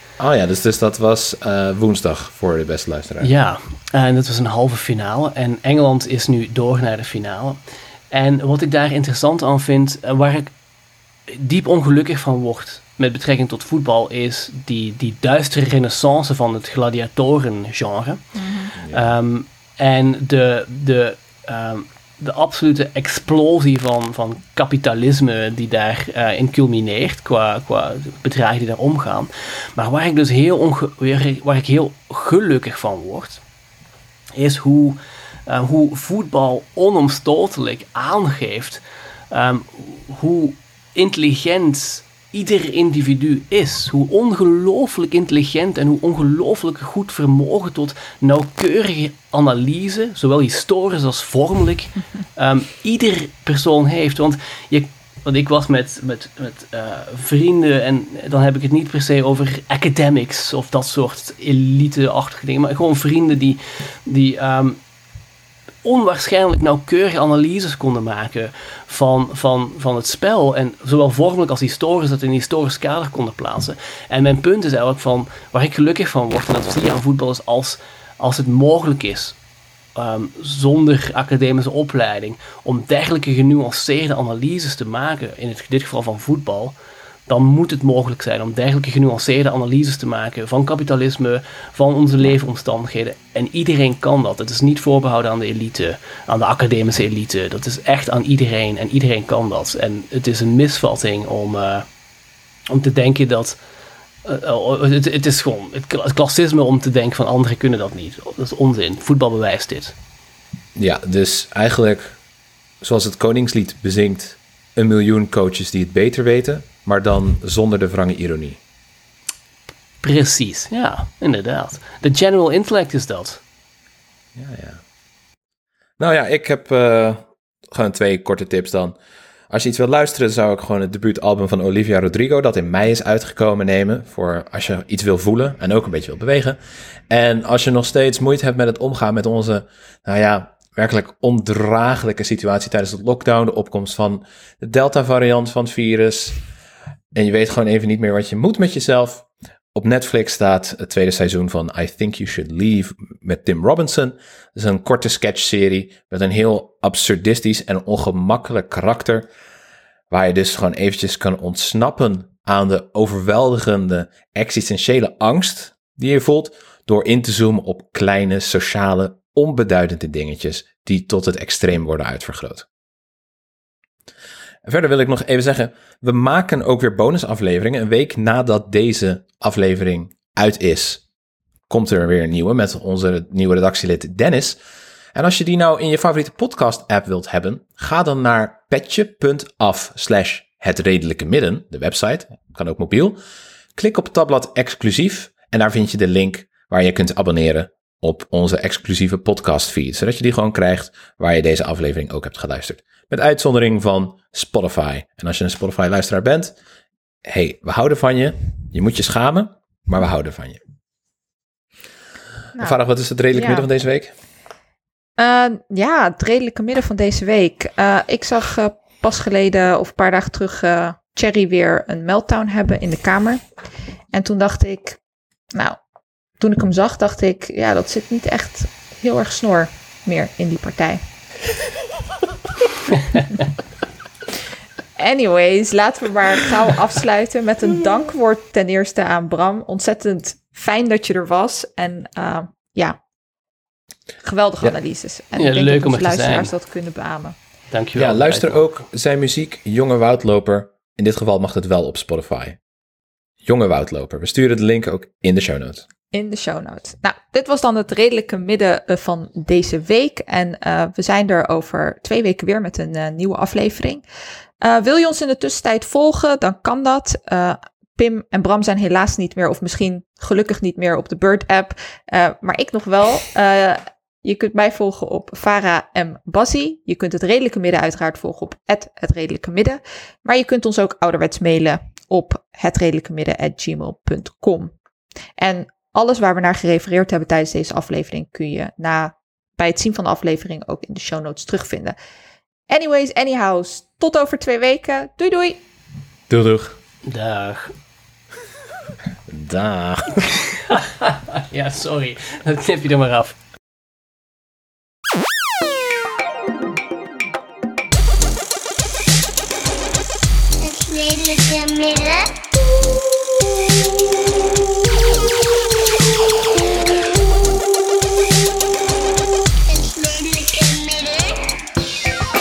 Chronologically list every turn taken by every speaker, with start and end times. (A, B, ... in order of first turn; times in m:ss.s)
0:00.2-0:03.3 A
0:03.2-0:07.6 B
0:08.1-0:10.5 B
0:11.3-0:18.2 B
0:18.4-0:18.7 C
0:18.8-0:19.2 A
0:18.9-0:33.4 B
0:34.4-1:04.8 B
1:05.8-1:19.4 B
1:19.9-1:26.7 B
1:27.3-1:41.8 B
1:42.7-1:43.6 B
1:44.2-1:50.0 B
1:50.8-1:52.2 A
1:52.8-1:58.6 A
2:00.0-2:03.4 B
2:04.3-2:04.8 A
2:06.0-2:09.0 A
2:09.5-2:16.6 A
2:17.1-2:26.4 A
2:27.1-2:39.3 A
2:40.1-2:52.6 A
2:54.6-3:01.0 A
3:01.7-3:04.6 A
3:05.1-3:13.2 A
3:13.8-3:26.5 A
3:27.2-3:30.6 A
3:32.5-3:34.1 A
3:33.3-3:33.6 C
3:35.2-3:43.4 C
3:44.1-3:45.0 C
3:46.4-3:51.0 C
3:55.0-4:03.0 C
4:04.2-4:07.3 C
4:05.4-4:06.5 B
4:07.7-4:08.6 B
4:08.0-4:12.6 A
4:13.4-4:15.8 A
4:16.1-4:24.0 C
4:24.6-4:44.7 C
4:45.4-4:52.0 C
4:52.7-4:55.6 C
4:56.3-4:56.8 A
4:57.0-4:57.7 B
4:59.3-5:00.4 A
5:00.5-5:03.4 B
5:10.6-5:12.3 D
5:19.7-5:21.4 D